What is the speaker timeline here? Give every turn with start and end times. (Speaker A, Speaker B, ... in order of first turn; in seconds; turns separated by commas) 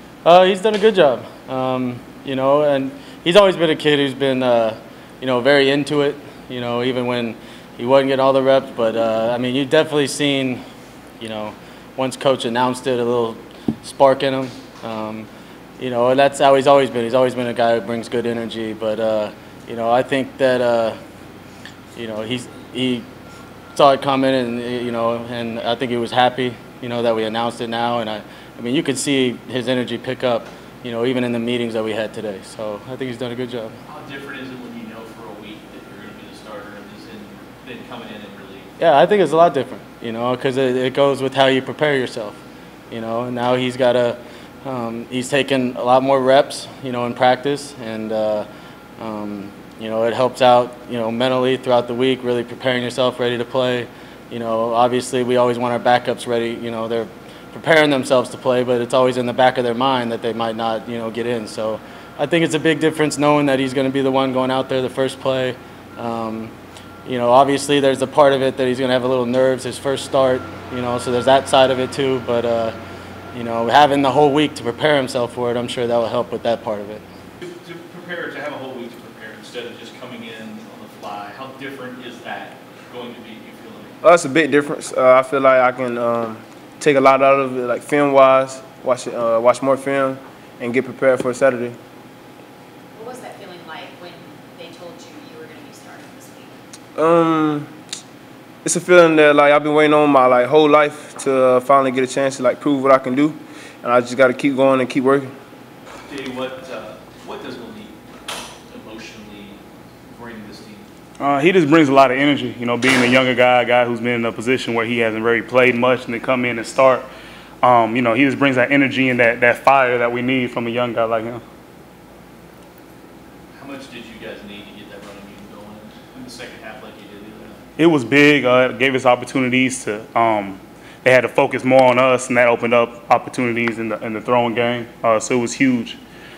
Speaker A: 0.2-10.6, Speaker A: 11.2-15.3, Speaker A: 15.8-21.0, Speaker A: 21.9-23.1, Speaker A: 23.7-33.7, Speaker B: 33.9-38.7, Speaker A: 38.8-42.4, Speaker A: 42.9-48.5, Speaker A: 49.0-66.5, Speaker A: 67.0-72.8, Speaker A: 73.3-77.0, Speaker B: 77.4-84.0, Speaker C: 84.0-91.8, Speaker D: 92.9-96.6, Speaker C: 97.0-97.7, Speaker C: 98.6-105.3, Speaker B: 106.1-108.0, Speaker B: 108.7-110.9, Speaker E: 111.2-117.1, Speaker E: 117.6-121.4, Speaker B: 123.5-127.6, Speaker E: 127.8-136.0